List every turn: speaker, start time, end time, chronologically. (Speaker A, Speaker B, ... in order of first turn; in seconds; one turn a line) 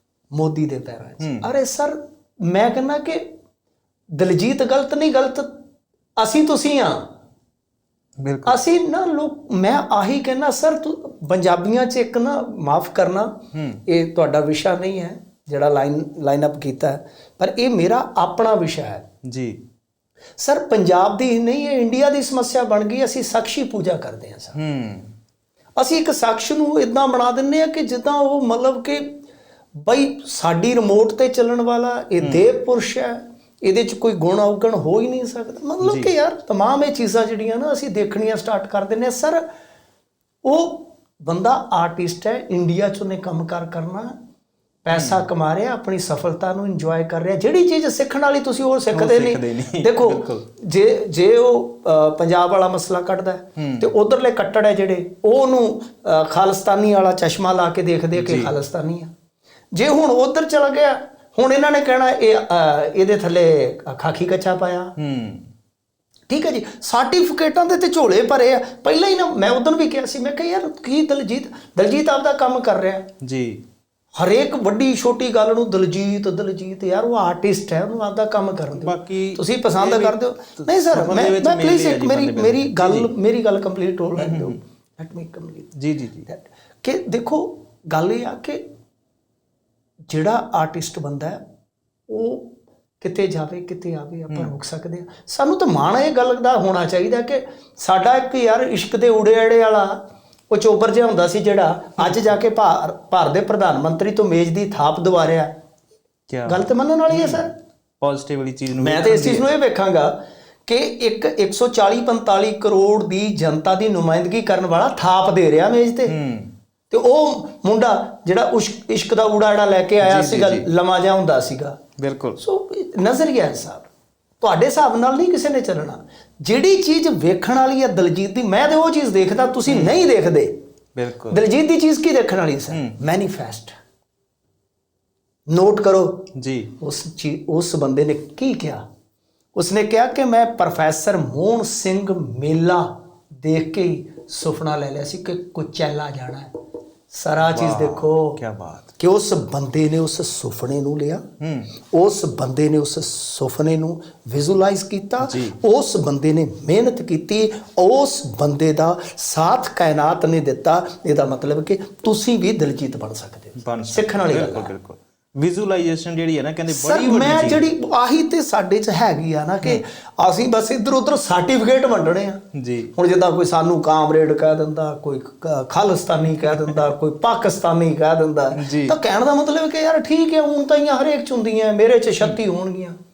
Speaker A: 0.3-3.3
Speaker B: 1.2-1.5
Speaker A: 4.2-5.5
Speaker A: 6.2-7.0
Speaker B: 8.2-8.6
Speaker A: 8.5-19.1
Speaker B: 13.5-13.8
Speaker B: 19.3-19.6
Speaker A: 20.4-24.6
Speaker B: 24.6-25.1
Speaker A: 25.8-29.2
Speaker A: 29.8-39.5
Speaker B: 32.2-32.5
Speaker B: 35.8-36.1
Speaker A: 40.5-44.1
Speaker A: 44.9-59.1
Speaker B: 44.9-45.2
Speaker B: 48.9-50.5
Speaker B: 53.6-53.9
Speaker B: 58.1-58.5
Speaker A: 59.7-65.0
Speaker B: 65.0-65.5
Speaker A: 66.3-73.1
Speaker B: 73.2-73.6
Speaker A: 74.2-85.7
Speaker B: 78.7-83.1
Speaker B: 84.2-84.6
Speaker B: 85.8-86.3
Speaker A: 86.3-88.6
Speaker A: 90.1-91.4
Speaker A: 92.1-105.5
Speaker B: 102.0-102.3
Speaker B: 106.3-107.5
Speaker A: 106.5-107.5
Speaker B: 108.0-109.5
Speaker A: 108.8-116.2
Speaker B: 116.1-116.5
Speaker A: 116.9-121.8
Speaker B: 120.0-120.7
Speaker B: 122.0-122.4
Speaker A: 122.4-123.9
Speaker A: 124.4-130.6
Speaker B: 129.7-130.0
Speaker B: 131.0-131.4
Speaker A: 131.3-133.7
Speaker A: 135.5-136.3
Speaker B: 136.4-136.7
Speaker A: 136.8-138.8
Speaker A: 139.6-148.4
Speaker B: 147.4-148.9
Speaker A: 149.0-151.2
Speaker B: 151.4-151.7
Speaker A: 151.9-164.7
Speaker B: 155.2-155.6
Speaker B: 163.6-167.7
Speaker A: 166.7-172.4
Speaker B: 172.5-172.9
Speaker A: 172.9-183.0
Speaker B: 178.6-179.0